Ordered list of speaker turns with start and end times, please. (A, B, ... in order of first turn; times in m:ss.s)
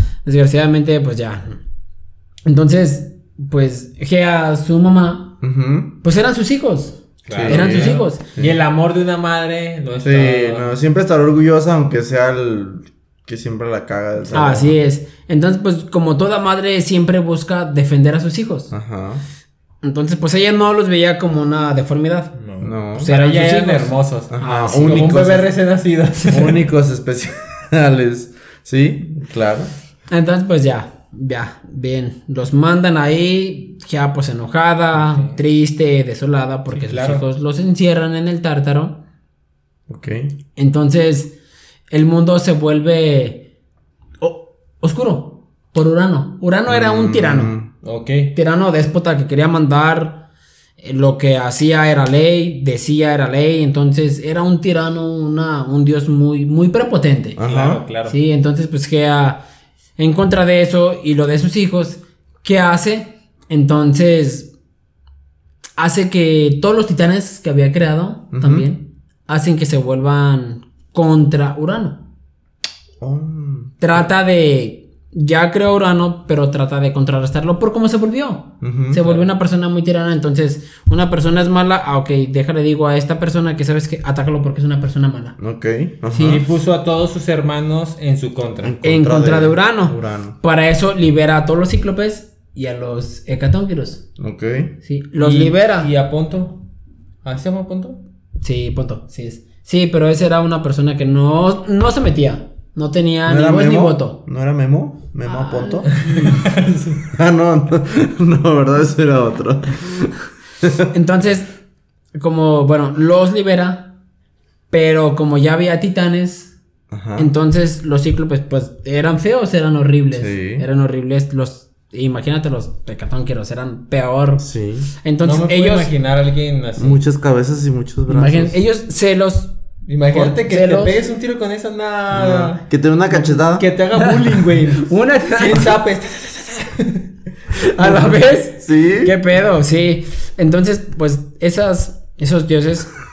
0:00.2-0:01.6 A
0:02.4-0:05.4 A
0:05.4-0:05.9 B
0:06.0-0:08.2 A
0:07.3-0:10.7 C
0:07.3-0:08.5 B
0:10.0-0:14.8 B
0:14.3-0:18.7 A
0:18.7-0:19.2 B
0:19.8-0:22.4 A
0:22.4-0:26.6 C
0:22.6-0:23.1 B
0:22.9-0:25.2 A
0:24.3-0:25.5 B
0:26.3-0:29.7 B
0:30.1-0:39.0 A
0:34.9-0:35.4 C
0:36.7-0:37.2 C
0:39.9-0:40.3 B
0:40.6-0:41.3 A
0:41.9-0:43.4 A
0:44.2-0:47.5 A
0:46.7-0:47.7 B
0:47.8-0:48.3 C
0:48.3-0:50.2 A
0:50.8-0:57.4 A
0:57.4-0:57.8 B
0:57.4-0:58.2 C
0:58.1-0:59.4 A
1:00.0-1:04.5 A
1:05.8-1:12.0 A
1:08.3-1:08.7 B
1:13.0-1:14.1 B
1:13.8-1:25.4 A
1:18.6-1:19.0 B
1:19.0-1:19.3 C
1:25.4-1:26.4 B
1:26.1-1:28.8 C
1:28.6-1:30.4 B
1:28.8-1:34.0 A
1:34.2-1:34.7 B
1:34.8-1:35.9 A
1:35.2-1:36.6 C
1:37.2-1:38.0 C
1:38.4-1:44.2 A
1:43.3-1:46.5 B
1:45.2-1:46.3 A
1:45.9-1:47.0 C
1:47.1-1:50.9 B
1:50.9-1:51.5 A
1:52.1-1:53.9 A
1:54.7-1:56.5 A
1:56.9-1:57.3 B
1:57.2-2:04.4 A
2:00.1-2:00.6 B
2:04.4-2:04.9 B
2:05.0-2:05.9 A
2:05.2-2:07.0 C
2:06.8-2:08.6 B
2:08.1-2:09.5 A
2:09.9-2:12.6 C
2:10.1-2:11.0 A
2:12.1-2:13.6 B
2:13.1-2:17.1 C
2:14.8-2:15.7 A
2:17.5-2:22.9 A
2:17.8-2:18.3 C
2:18.6-2:19.1 B